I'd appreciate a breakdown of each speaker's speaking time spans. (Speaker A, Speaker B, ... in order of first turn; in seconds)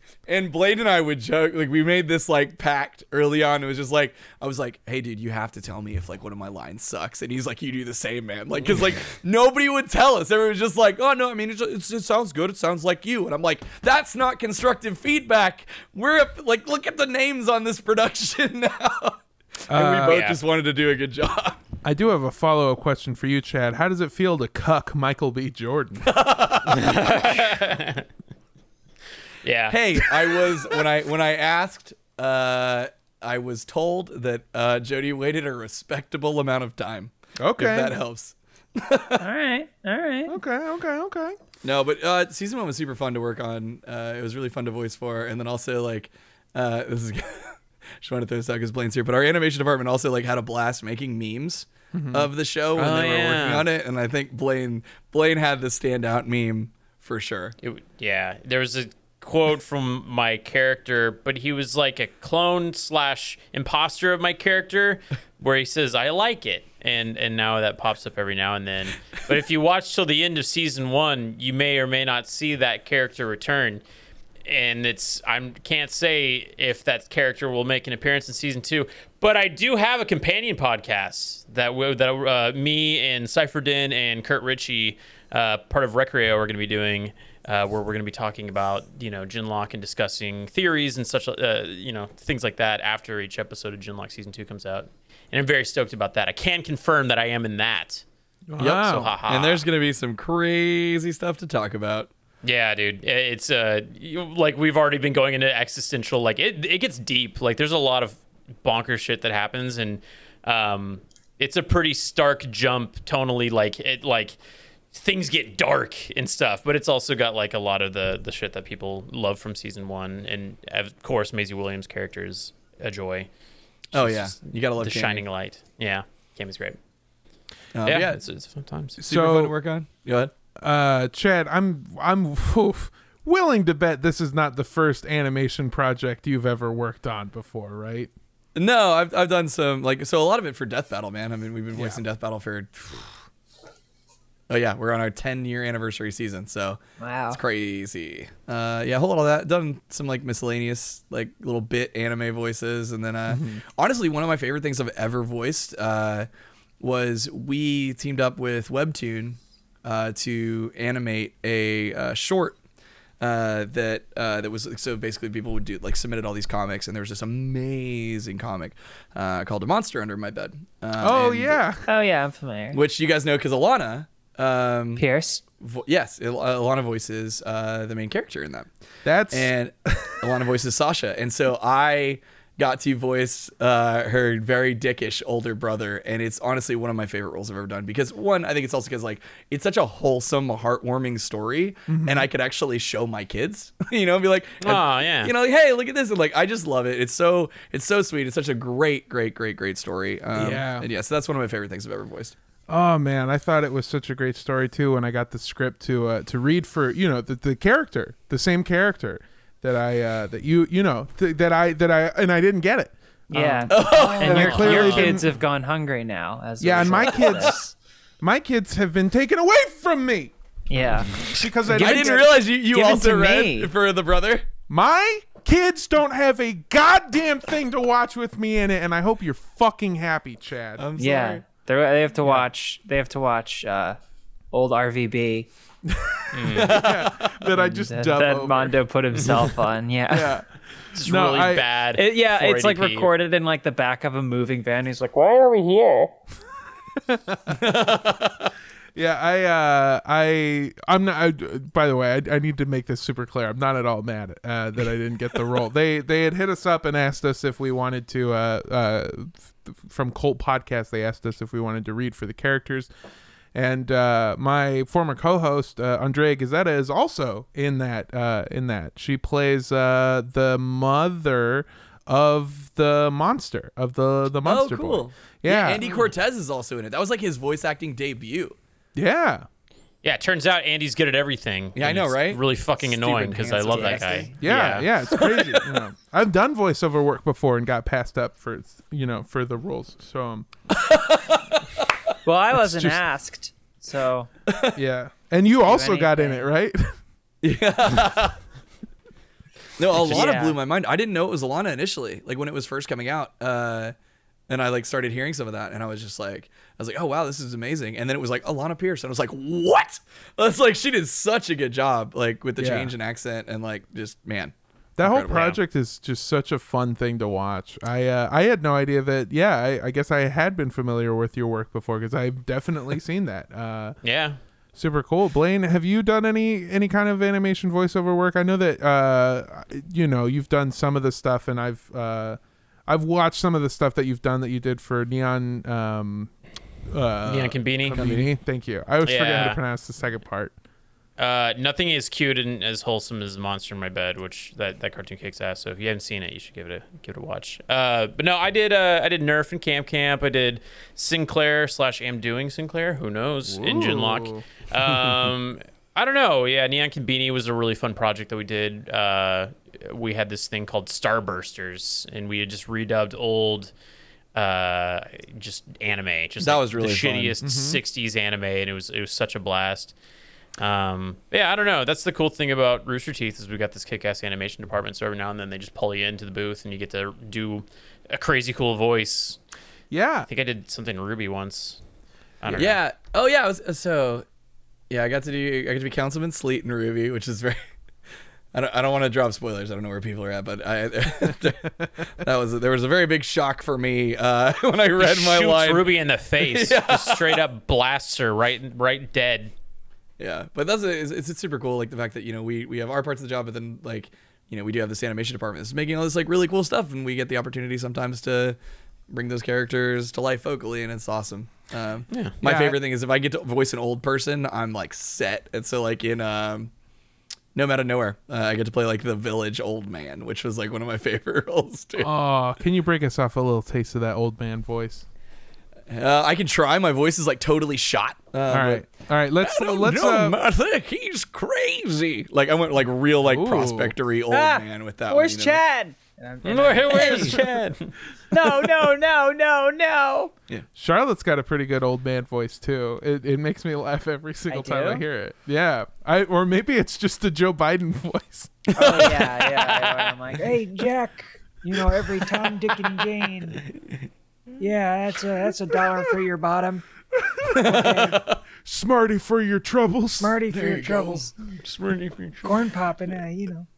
Speaker A: 0.3-21.6, 26.0-27.6, 29.7-39.2, 41.6-57.5, 98.6-102.1, 123.9-125.2, 127.8-128.2, 129.0-130.3, 138.6-143.1, 144.5-146.8, 147.3-156.3, 156.8-162.6, 163.2-171.6, 172.7-175.1, 175.6-178.7, 179.3-202.3, 213.7-214.9, 221.7-224.5, 230.8-231.4, 236.5-237.5, 247.5-248.5, 274.4-278.6, 281.8-284.3, 285.0-285.7, 290.7-291.9, 294.5-294.8, 297.4-298.4, 299.8-303.9, 304.5-315.5, 338.0-338.2, 366.4-367.4, 382.5-384.3, 384.9-387.6, 388.5-397.4, 400.2-408.6, 409.1-416.7, 417.6-422.1, 425.9-428.9, 429.4-435.6, 448.8-449.3, 457.5-458.4, 460.5-461.3
Speaker B: 19.7-20.2, 21.8-26.1, 37.4-38.0, 40.3-41.4, 51.9-52.3, 98.5-99.1, 129.1-129.5, 130.6-138.1, 141.7-142.0, 153.3-153.6, 171.0-171.9, 179.1-180.2, 191.9-192.3, 200.3-200.9, 202.7-215.4, 216.6-217.6, 218.2-220.3, 220.9-222.1, 224.7-230.8, 235.9-238.8, 240.1-240.5, 241.0-241.7, 247.1-247.6, 248.9-262.9, 263.5-275.8, 278.9-279.5, 284.4-290.5, 292.6-293.0, 294.8-296.9, 312.6-312.9, 315.0-324.0, 324.8-336.3, 336.9-340.5, 353.5-354.4, 367.4-367.8, 379.9-380.3, 412.4-412.8, 422.0-425.1, 428.5-430.4, 433.2-433.9, 440.8-449.0, 457.2-457.9, 458.6-460.4
Speaker C: 20.0-20.4, 26.7-28.1, 29.4-30.1, 52.8-53.7, 57.6-73.8, 74.5-98.0, 98.7-99.7, 102.4-114.4, 114.9-123.3, 123.9-126.8, 127.8-129.0, 194.6-195.3, 214.2-215.2, 236.3-236.9, 240.9-243.1, 280.0-284.9, 315.3-315.6, 324.0-324.4, 337.3-338.3, 339.1-339.6, 341.2-363.7, 364.3-369.9, 370.6-379.4, 380.3-381.8, 382.4-382.8, 395.0-399.5, 436.4-437.9, 449.5-450.1, 461.6-462.5
Speaker D: 39.2-40.4, 147.0-147.4, 171.9-172.8, 175.0-175.4, 213.3-217.7, 220.7-223.7, 231.0-234.0, 234.5-235.5, 237.6-240.4, 242.0-246.1, 275.8-276.1, 283.7-284.4, 292.2-294.3, 295.6-296.5, 300.0-300.6, 434.3-437.6, 438.3-440.3, 444.5-445.0, 448.8-453.6, 454.6-456.8, 457.6-458.2, 460.2-461.3, 462.4-463.7